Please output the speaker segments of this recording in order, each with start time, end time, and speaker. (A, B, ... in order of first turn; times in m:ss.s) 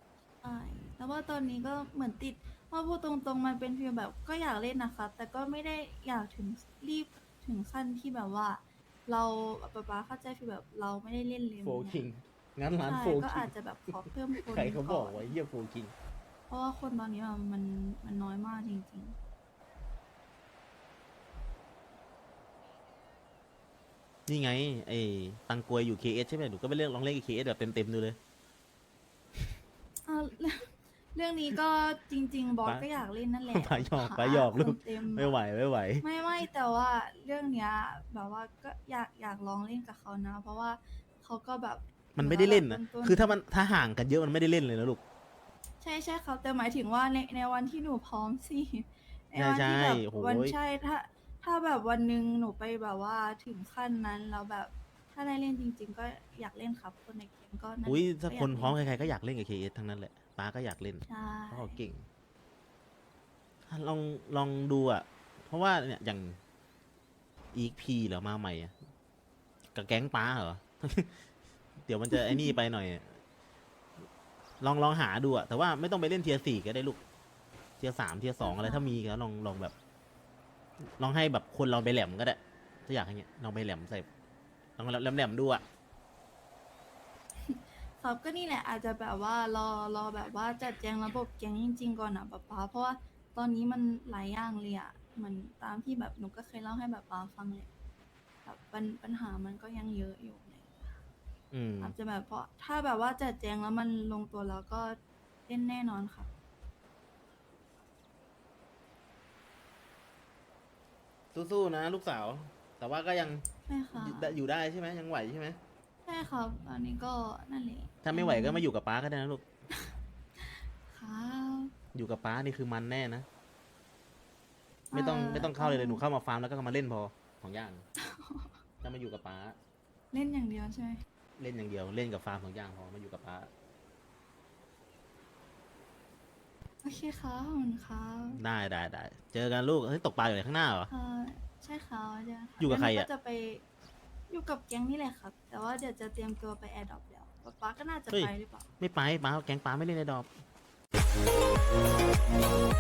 0:00.4-0:12.0 A
0:11.6-0:15.9 B
0:12.8-0:15.4 A
0:16.5-0:19.1 A
0:24.3-0:28.2 B
0:30.0-0:35.4 A
0:33.5-0:36.0 B
0:36.0-0:43.4 A
0:42.1-0:45.0 B
0:45.8-0:59.1 A
0:49.4-0:50.6 B
0:57.8-1:02.0 B
1:01.0-1:01.8 A
1:03.7-1:06.4 B
1:07.5-1:08.7 B
1:09.7-1:11.1 B
1:11.8-1:13.2 B
1:12.1-1:12.5 A
1:14.6-1:17.0 B
1:17.8-1:19.7 B
1:18.4-1:19.0 A
1:21.0-1:24.1 B
1:24.8-1:25.6 B
1:27.4-1:37.7 A
1:38.4-1:41.0 A
1:41.5-1:41.9 B
1:41.8-1:46.3 A
1:51.3-1:53.4 B
1:53.6-1:54.4 A
1:54.0-1:55.6 B
1:56.0-1:58.6 A
1:58.0-1:59.4 B
1:59.7-2:01.7 A
2:01.9-2:03.2 B
2:04.9-2:06.0 A
2:04.9-2:07.8 B
2:08.0-2:08.6 A
2:08.8-2:09.6 B
2:10.1-2:11.0 A
2:11.4-2:13.5 B
2:16.8-2:18.4 A
2:18.4-2:20.9 B
2:20.9-2:23.6 A
2:22.6-2:23.1 B
2:24.3-2:28.7 A
2:28.1-2:30.3 B